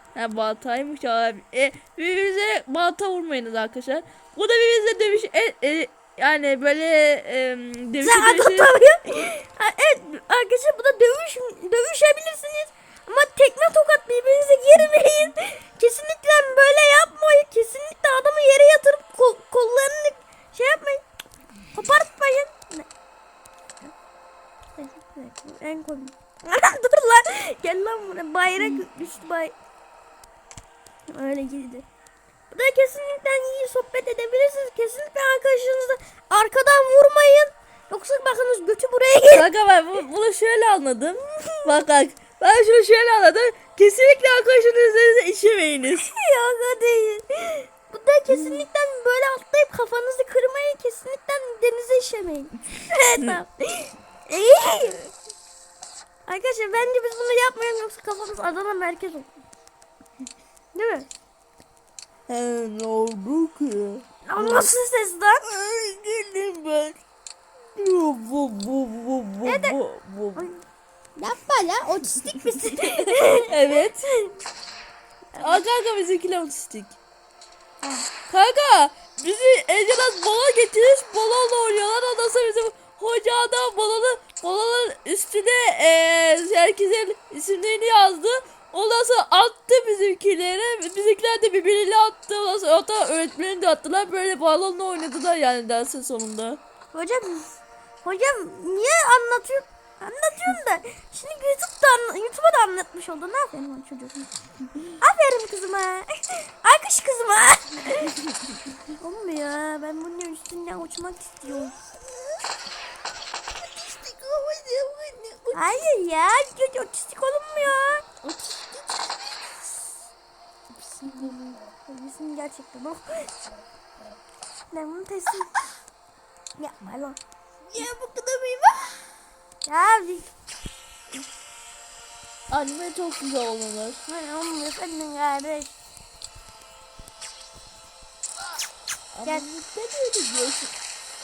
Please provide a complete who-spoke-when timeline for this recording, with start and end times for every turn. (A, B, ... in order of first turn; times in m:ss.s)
0:00.1-0:08.8 A
0:08.0-0:21.0 B
0:21.7-0:22.9 B
0:24.8-0:29.5 B
0:31.1-0:31.8 B
0:32.5-0:39.5 B
0:39.3-0:46.1 A
0:41.2-0:41.8 B
0:46.1-0:55.0 B
0:48.3-0:48.6 A
0:56.3-0:59.3 B
1:00.7-1:01.1 B
1:02.3-1:04.7 A
1:04.2-1:05.4 B
1:05.4-1:07.0 A
1:07.8-1:10.5 A
1:09.4-1:09.8 B
1:10.4-1:10.6 B
1:11.2-1:14.4 B
1:13.4-1:14.0 A
1:15.3-1:15.6 B
1:15.4-1:17.0 A
1:17.8-1:18.1 B
1:18.3-1:36.6 A
1:36.9-1:37.5 B
1:38.0-1:44.3 B
1:44.9-1:48.2 B
1:48.9-1:51.7 B
1:53.8-1:55.8 A
1:55.5-1:58.3 B
2:00.9-2:01.3 A
2:01.0-2:03.3 B
2:04.7-2:05.6 B
2:06.6-2:07.2 B
2:07.7-2:09.0 A
2:09.6-2:10.3 B
2:12.5-2:14.0 A
2:14.0-2:15.8 B
2:19.1-2:20.7 A